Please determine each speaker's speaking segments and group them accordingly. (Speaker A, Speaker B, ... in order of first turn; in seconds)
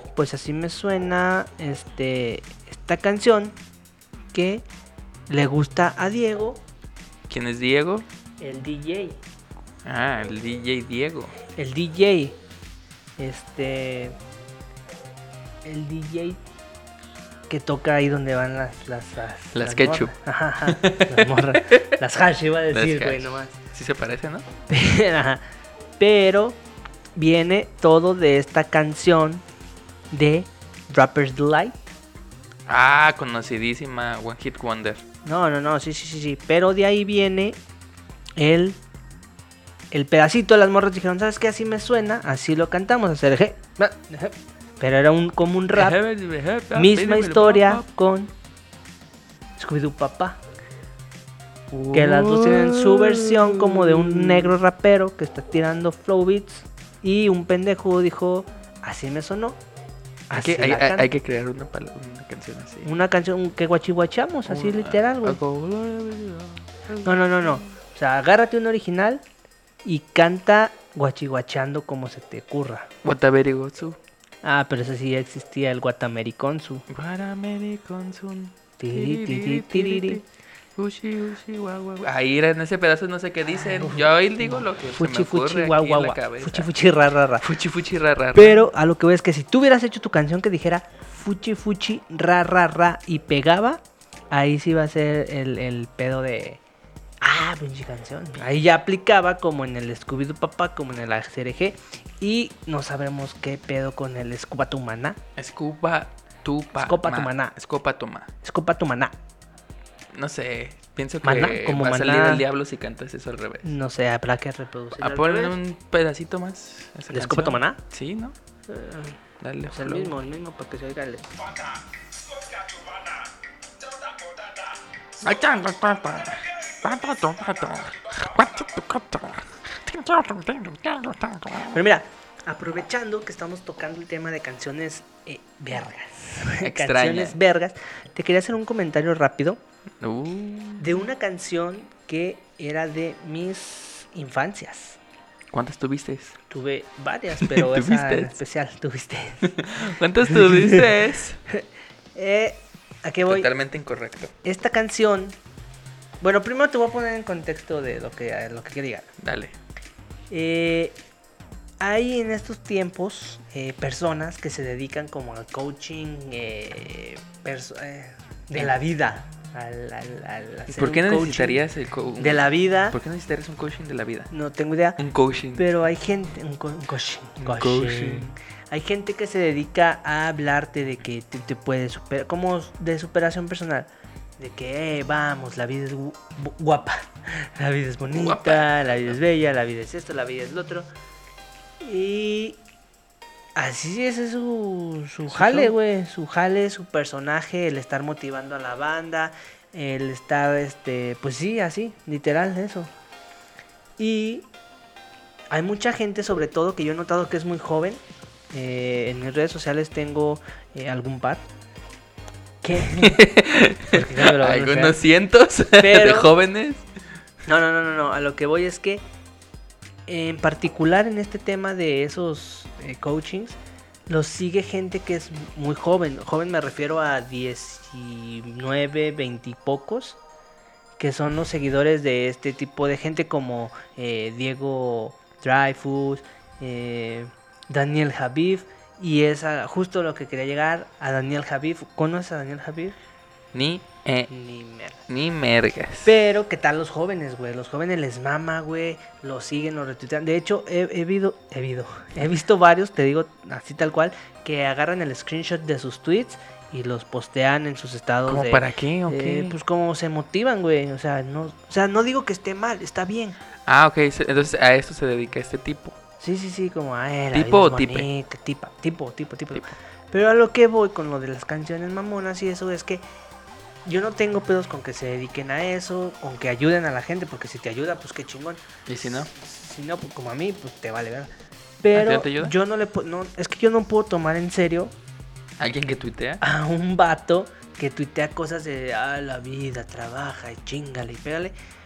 Speaker A: 0.1-3.5, 4.3-4.6, 5.3-6.6, 8.4-9.2, 11.6-12.3, 13.2-14.2, 15.6-16.4, 17.5-23.6, 24.7-25.4, 26.0-26.6, 27.1-29.4, 30.1-31.8, 35.2-37.6, 38.4-38.8, 39.9-46.0, 46.7-48.3, 49.6-50.4, 51.9-59.6, 60.3-61.1, 62.8-65.4, 67.0-69.2, 69.8-72.9, 74.4-76.8, 78.8-80.2, 83.5-87.4, 88.3-96.6, 97.2-105.2, 106.8-107.5, 108.4-109.1, 111.2-112.4, 113.6-115.6, 117.1-117.8, 118.7-119.2, 119.7-121.3, 131.7-139.6, 140.8-145.0, 146.5-149.6, 150.2-150.9, 152.1-153.5, 154.4-155.4, 156.2-159.1, 160.3-161.0, 161.8-171.6, 172.2-173.0, 174.3-175.0, 175.5-190.9, 191.8-192.6, 193.6-202.9, 204.0-204.4, 205.5-211.4, 212.6-213.2, 213.9-215.0, 215.8-216.3, 217.5-219.0, 220.1-230.2, 231.0-242.9, 244.3-245.0, 246.0-263.4, 266.2-273.0, 273.8-281.3, 281.8-284.9, 286.4-291.5
Speaker B: 7.3-8.1, 9.8-11.3, 19.5-20.1, 20.6-21.9, 22.7-24.5, 32.7-35.0, 45.7-47.8, 51.7-54.5, 60.3-62.9, 64.5-67.6, 73.0-74.0, 76.9-80.2, 80.8-86.7, 87.4-88.7, 105.4-108.3, 110.1-113.7, 115.0-118.3, 119.4-120.2, 125.2-131.8, 136.6-137.4, 140.0-140.8, 145.5-146.4, 147.3-148.4, 149.4-151.4, 153.3-154.3, 159.2-159.5, 170.7-174.3, 175.0-175.6, 177.4-178.3, 188.1-189.2, 195.3-195.7, 212.7-216.8, 243.5-244.3, 245.1-246.1, 258.3-259.5, 263.6-266.0, 267.3-268.1, 278.9-279.3, 281.9-282.5, 285.6-286.4